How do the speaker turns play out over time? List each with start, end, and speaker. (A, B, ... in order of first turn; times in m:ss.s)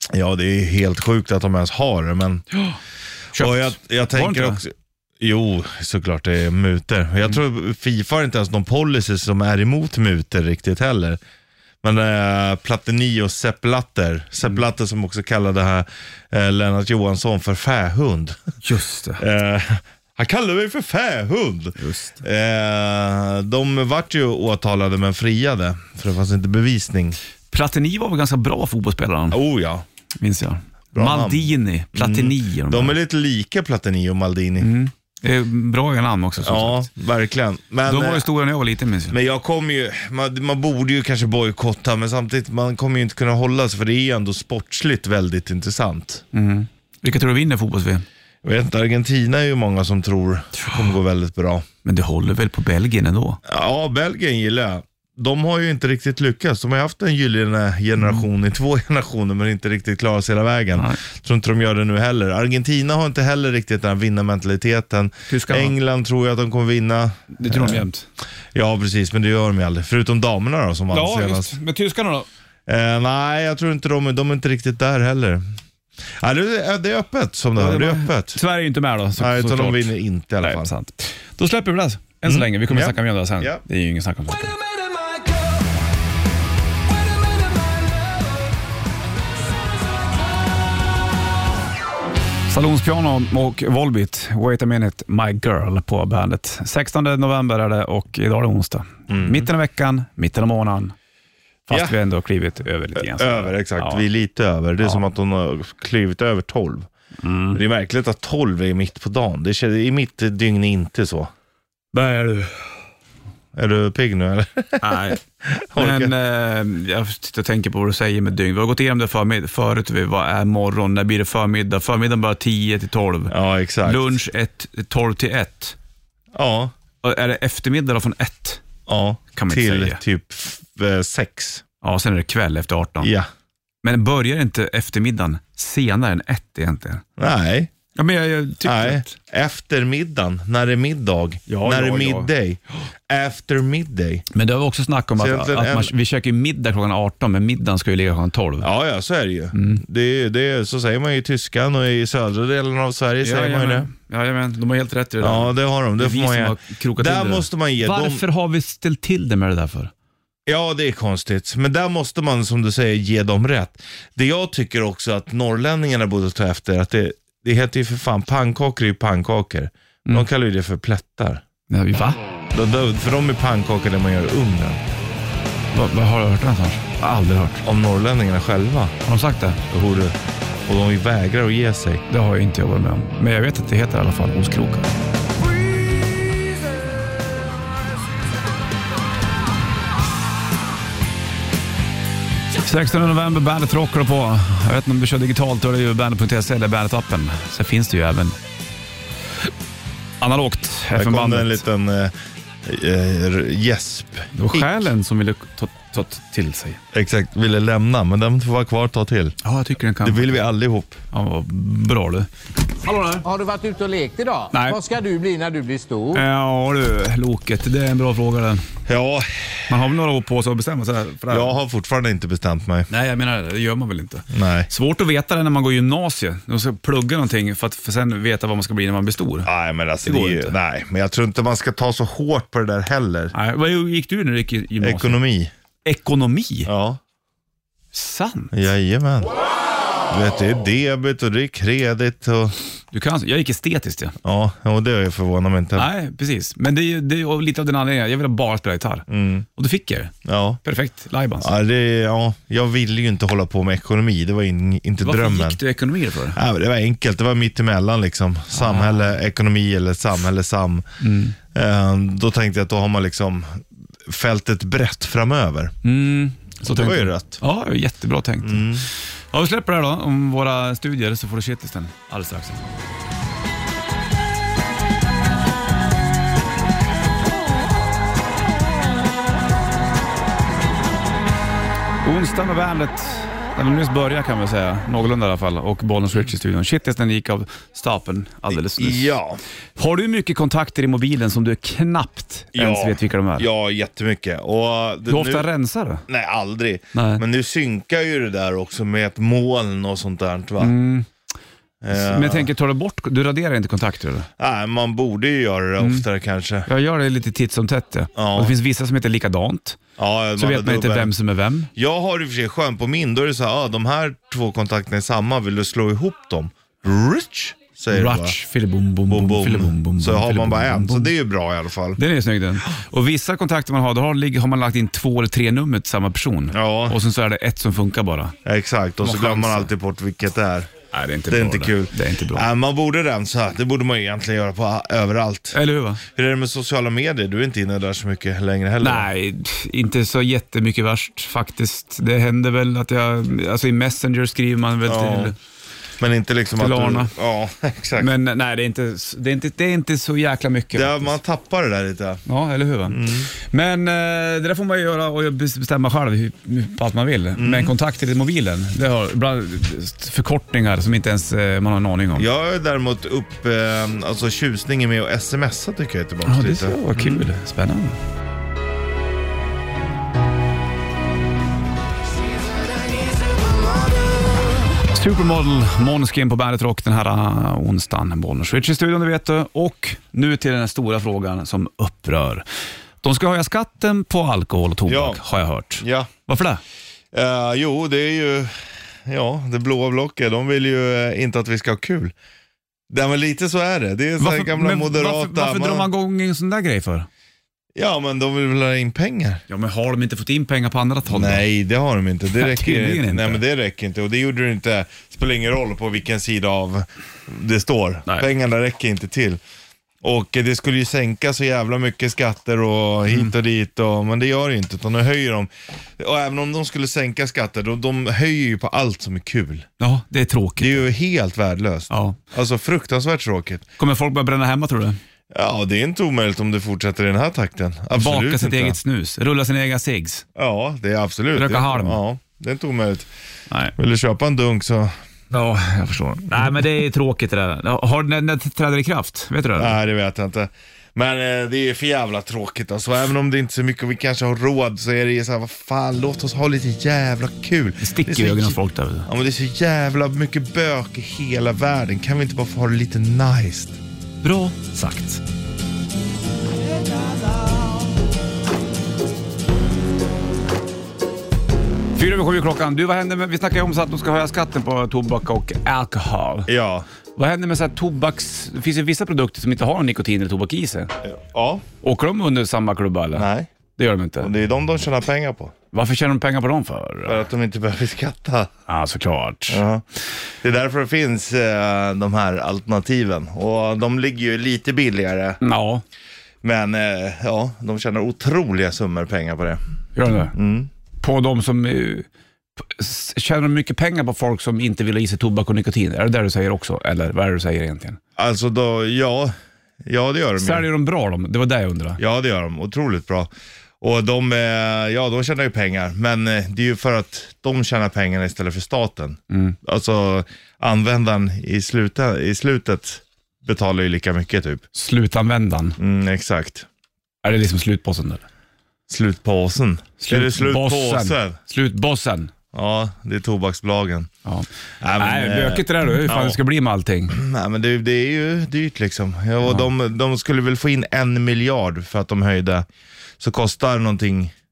0:00.1-0:02.4 A
0:03.3-0:04.6 B
0:03.4-0:11.2 A
0:11.8-0:18.4 A
0:18.6-0:19.2 B
0:19.2-0:27.2 A
0:21.8-0:22.2 B
0:27.5-0:29.4 B
0:29.3-0:29.8 A
0:30.2-0:32.9 B
0:30.9-0:34.7 A
0:34.6-0:36.9 B
0:36.4-0:38.2 A
0:37.8-0:39.2 B
0:39.1-0:46.2 A
0:46.3-0:48.0 B
0:48.4-0:51.7 A
0:51.8-0:53.4 B
0:53.4-1:07.8 A
1:05.3-1:05.8 B
1:07.3-1:08.0 B
1:08.5-1:11.6 A
1:10.9-1:12.3 B
1:12.7-1:15.4 A
1:16.2-1:18.4 A
1:17.6-1:24.6 B
1:19.2-1:20.7 A
1:22.2-1:23.6 A
1:32.5-1:40.9 B
1:39.1-1:39.5 A
1:41.7-1:44.0 B
1:41.7-1:42.0 A
1:43.0-1:46.9 A
1:47.2-1:47.6 B
1:47.5-1:51.3 A
1:51.9-1:52.7 B
1:53.5-1:56.1 A
1:54.8-1:55.2 B
1:55.8-2:05.8 B
2:03.3-2:04.2 A
2:06.3-2:06.7 A
2:07.0-2:08.6 B
2:08.9-2:11.6 A
2:09.3-2:10.0 B
2:11.8-2:13.1 B
2:13.0-2:13.3 A
2:13.8-2:17.0 B
2:17.2-2:17.7 A
2:17.9-2:19.2 B
2:18.6-2:24.2 A
2:21.5-2:22.3 B
2:24.3-2:28.7 B
2:25.2-2:25.9 A
2:28.6-2:33.9 A
2:29.5-2:29.8 B
2:33.2-2:39.9 B
2:35.2-2:38.2 A
2:40.4-2:51.4 A
2:51.7-2:52.2 B
2:52.5-2:54.8 A
2:55.7-2:57.6 B
2:57.6-2:58.9 A
2:59.0-2:59.6 B
2:59.7-3:00.2 A
3:00.7-3:02.0 A
3:02.1-3:04.9 B
3:12.6-3:18.4 B
3:20.2-3:21.6 B
3:20.9-3:22.1 A
3:22.6-3:24.7 A
3:24.3-3:26.8 B
3:26.9-3:29.4 A
3:29.4-3:30.4 B
3:30.0-3:31.0 A
3:31.1-3:33.2 B
3:33.2-3:36.2 C
3:34.5-3:34.8 B
3:36.1-3:38.6 B
3:38.8-3:39.7 A
3:39.7-3:41.6 B
3:41.3-3:42.9 A
3:42.9-3:49.5 B
3:44.3-3:44.7 A
3:49.4-3:53.3 A
3:50.0-3:50.6 B
3:53.3-3:55.2 B
3:54.8-3:55.5 A
3:55.8-3:56.7 B
3:56.7-3:57.0 A
3:57.9-3:58.6 B
3:58.5-3:59.3 A
4:00.1-4:02.6 A
4:02.9-4:04.2 B
4:04.2-4:05.9 A
4:05.8-4:11.5 B
4:09.1-4:09.5 A
4:10.2-4:10.6 A
4:11.4-4:15.6 A
4:15.0-4:16.4 B
4:16.3-4:20.8 A
4:18.5-4:19.1 B
4:21.0-4:21.4 B
4:21.5-4:25.7 A
4:25.8-4:32.6 B
4:26.7-4:27.4 A
4:28.4-4:28.9 A
4:42.0-4:49.1 B
4:48.5-4:49.4 A
4:49.8-4:53.5 B
4:52.5-4:55.5 A
4:55.0-4:56.0 B
4:56.1-5:00.8 A
4:56.9-4:57.2 B
5:00.6-5:01.1 B
5:01.8-5:02.5 A
5:01.9-5:04.3 B
5:04.4-5:06.7 A
5:05.8-5:06.0 B
5:06.7-5:09.8 B
5:08.1-5:08.5 A
5:10.0-5:11.1 A
5:10.4-5:11.7 B
5:11.8-5:18.4 A
5:17.9-5:21.1 B
5:19.1-5:22.0 A
5:22.0-5:28.4 B
5:26.5-5:27.0 A
5:28.4-5:30.7 A
5:29.0-5:29.7 B
5:30.9-5:32.5 B
5:31.3-5:39.1 A
5:35.5-5:36.0 B
5:38.8-5:45.4 B
5:44.8-5:45.3 A
5:46.0-5:48.1 A
5:46.6-5:47.1 B
5:48.0-5:51.2 B
5:50.7-5:52.2 A
5:52.2-6:02.3 B
5:52.9-5:53.3 A
5:57.4-5:57.7 A
6:02.1-6:07.3 A
6:06.2-6:08.0 B
6:14.9-6:22.4 B
6:23.0-6:26.6 B
6:24.9-6:25.2 A
6:25.8-6:26.1 A
6:27.1-6:28.5 A
6:29.0-6:32.1 A
6:32.9-6:35.9 A
6:34.2-6:37.1 B
6:37.8-6:39.4 A
6:39.5-6:41.4 B
6:41.1-6:49.4 A
6:42.4-6:43.4 B
6:50.0-6:59.7 A
6:59.8-7:00.9 B
7:00.6-7:03.6 A
7:01.9-7:02.2 B
7:03.8-7:05.0 B
7:05.3-7:08.8 A
7:07.9-7:10.2 B
7:10.4-7:13.1 A
7:11.4-7:12.0 B
7:13.8-7:15.0 A
7:15.3-7:19.8 B
7:19.6-7:33.8 A
7:27.8-7:29.1 B
7:34.2-7:35.2 B
7:42.0-7:46.5 B
7:46.5-7:46.9 A
7:47.1-7:50.9 B
7:51.0-7:51.6 A
7:51.8-7:54.3 B
7:53.1-7:53.5 A
7:54.2-7:55.5 A
7:55.7-7:57.2 B
7:57.0-7:58.5 A
7:58.7-7:59.6 B
7:59.5-7:59.8 A
8:00.4-8:05.4 A
8:05.4-8:05.8 B
8:06.4-8:09.6 A
8:09.9-8:10.3 B
8:10.3-8:10.7 A
8:11.0-8:18.0 B
8:18.2-8:20.7 A
8:20.4-8:22.0 B
8:22.0-8:23.3 A
8:23.8-8:34.6 A
8:29.3-8:29.6 B
8:34.7-8:35.8 B
8:35.8-8:36.6 A
8:37.2-8:38.2 B
8:38.9-8:41.4 A
8:40.0-8:42.3 B
8:42.5-8:44.1 A
8:44.8-8:46.4 A
8:45.0-8:47.2 B
8:47.1-8:52.7 A
8:53.2-8:54.3 A